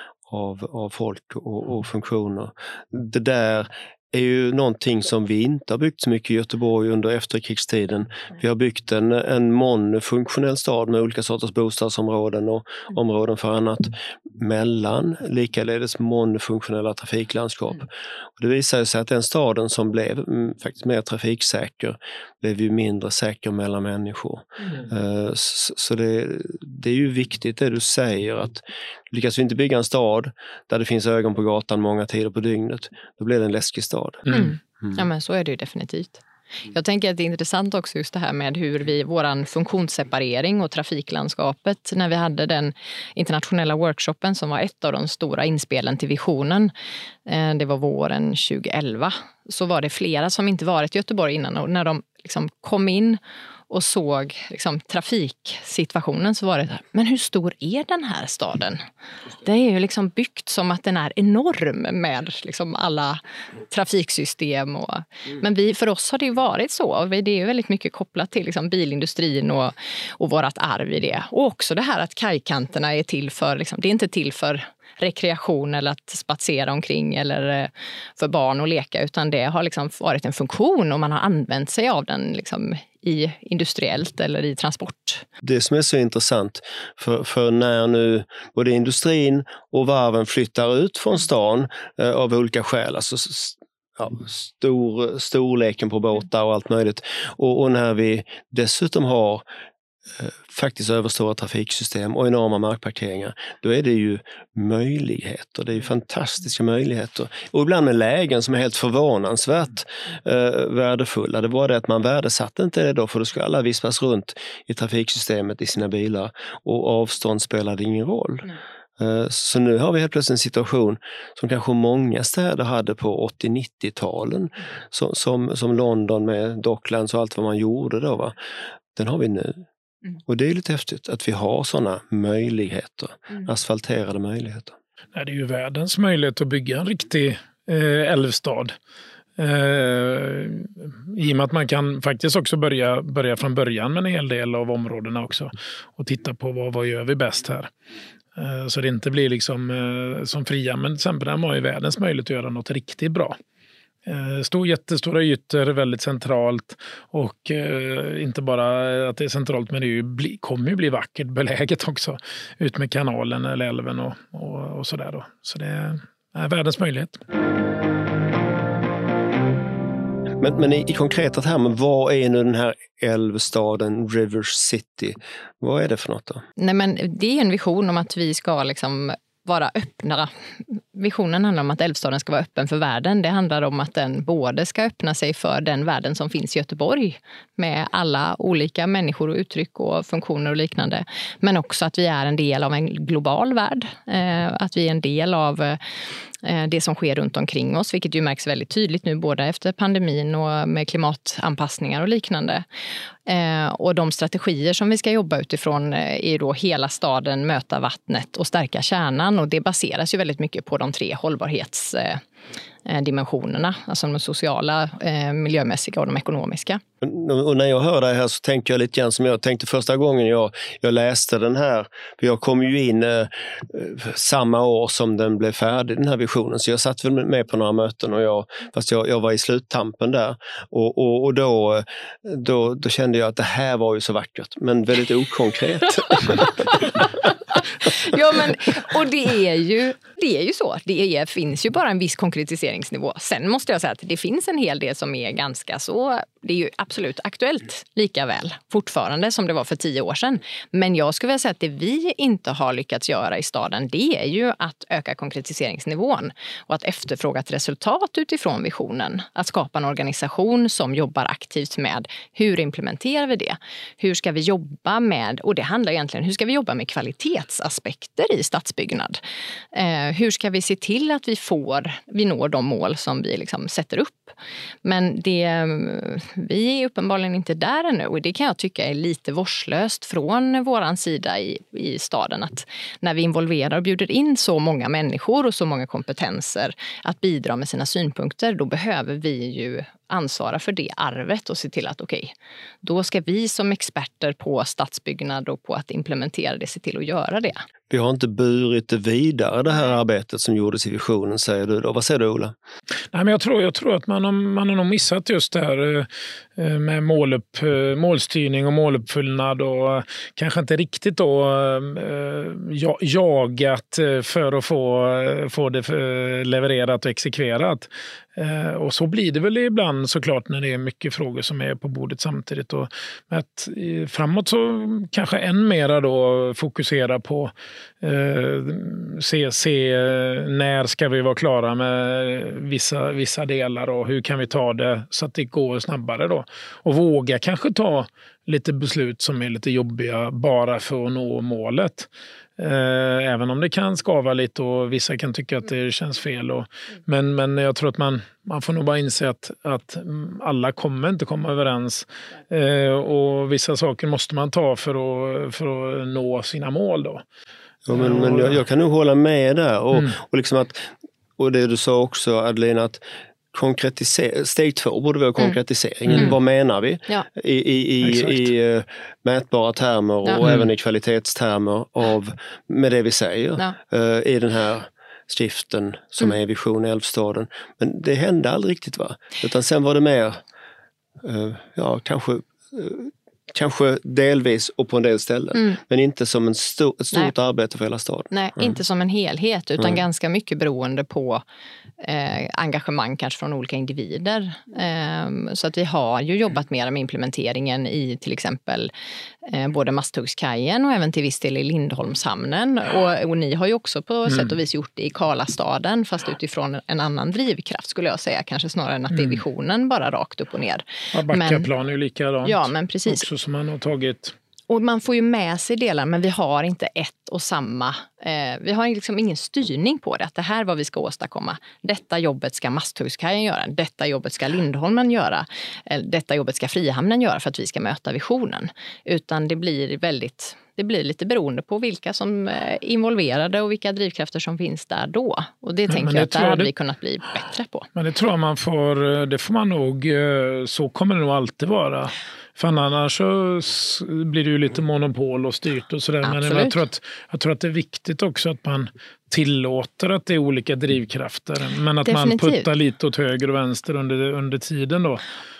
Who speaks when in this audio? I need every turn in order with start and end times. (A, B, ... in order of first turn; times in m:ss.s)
0:00.3-0:34.3 A
0:34.3-0:46.7 B
0:47.2-0:53.2 B
0:53.7-0:58.8 B
0:59.4-1:25.2 B
1:25.4-1:39.4 A
1:40.2-2:08.4 A
2:08.9-2:09.6 A
2:10.2-2:14.8 A
2:15.1-2:18.7 C
2:19.4-2:27.7 C
2:28.4-2:33.4 C
2:34.0-2:47.2 C
2:50.4-2:56.4 A
2:56.6-3:15.8 B
3:16.4-3:22.6 B
3:23.2-3:32.2 B
3:32.8-3:36.8 B
3:37.0-3:56.6 A
3:57.8-4:29.2 B
4:29.7-4:57.6 B
4:57.9-5:02.5 A
5:03.1-5:57.2 C
5:57.8-6:03.0 A
5:57.9-5:58.6 C
6:03.5-6:20.4 A
6:06.1-6:06.3 C
6:08.1-6:08.4 C
6:10.4-6:10.7 C
6:21.2-6:28.8 A
6:28.3-6:31.4 B
6:32.0-6:38.9 B
6:39.4-6:51.7 B
6:44.3-6:44.5 C
6:49.1-6:49.4 C
6:51.1-6:54.3 C
6:52.4-6:53.2 B
6:54.7-7:17.9 B
7:15.9-7:16.7 C
7:17.9-7:35.2 C
7:26.2-7:26.8 B
7:32.0-7:32.7 B